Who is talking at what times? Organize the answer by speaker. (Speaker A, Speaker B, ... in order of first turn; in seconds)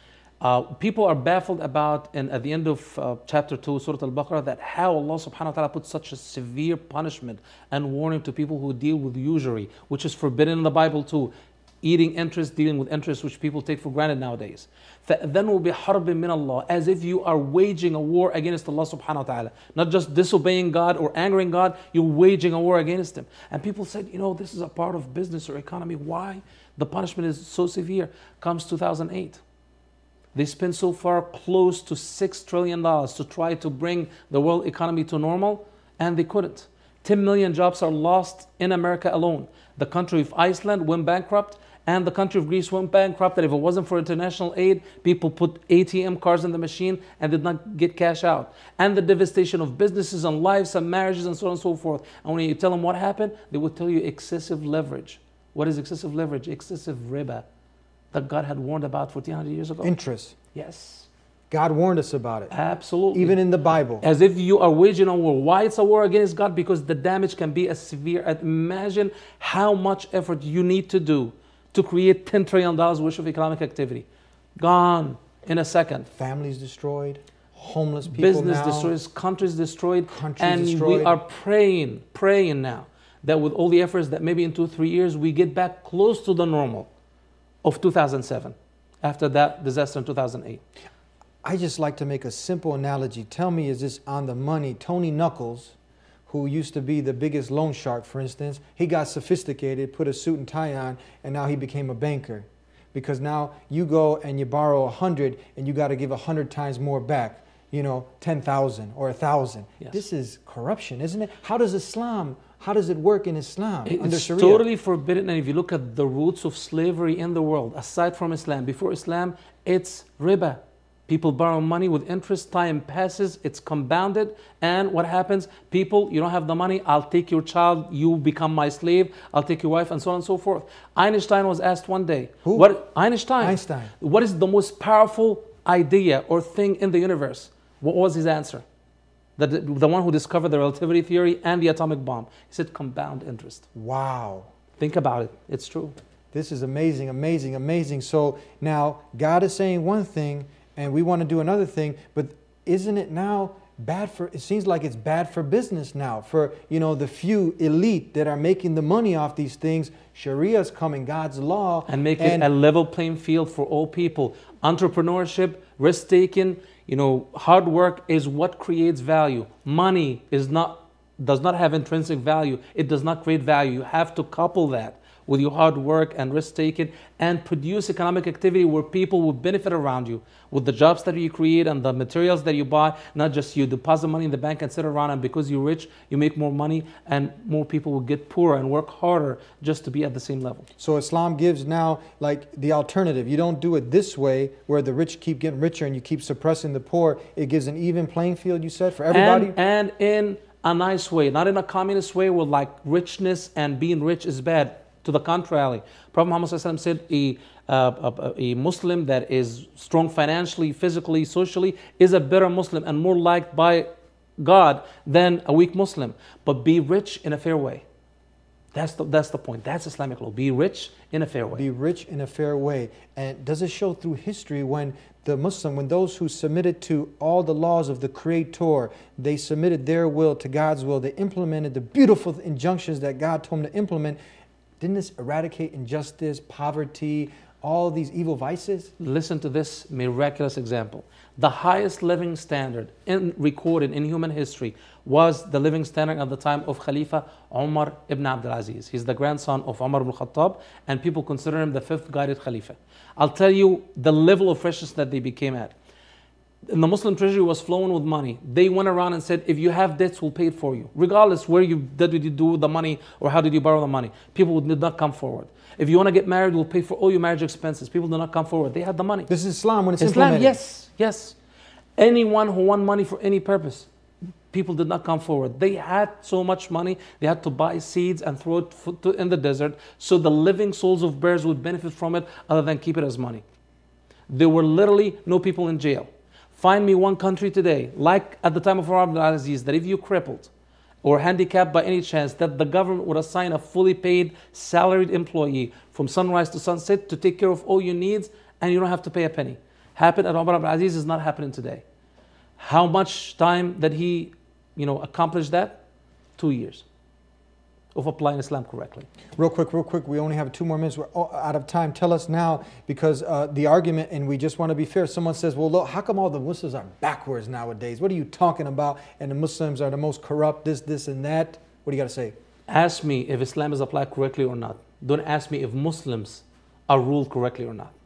Speaker A: 0.4-29.4, 30.3-57.5, 58.1-59.9, 60.5-61.1, 62.5-63.4, 64.0-74.1, 74.6-76.1, 78.1-86.9, 87.6-90.6, 113.8-138.6, 139.4-143.7, 144.8-145.9, 161.9-190.7, 199.1-217.8, 218.7-221.7, 239.0-255.7, 256.7-269.3, 270.0-271.4, 272.0-273.9, 274.5-283.4, 284.3-290.5, 291.0-301.8, 302.6-305.8, 306.4-306.9, 307.9-309.1, 322.7-327.9
Speaker B: 59.8-60.4, 61.5-62.5, 63.1-64.1, 76.1-78.9, 80.1-81.2, 91.4-95.8, 96.3-114.7, 132.4-132.8, 133.4-133.9, 143.7-144.5, 146.3-162.5, 190.8-199.6, 221.5-234.2, 234.8-238.9, 269.3-270.6, 309.4-322.4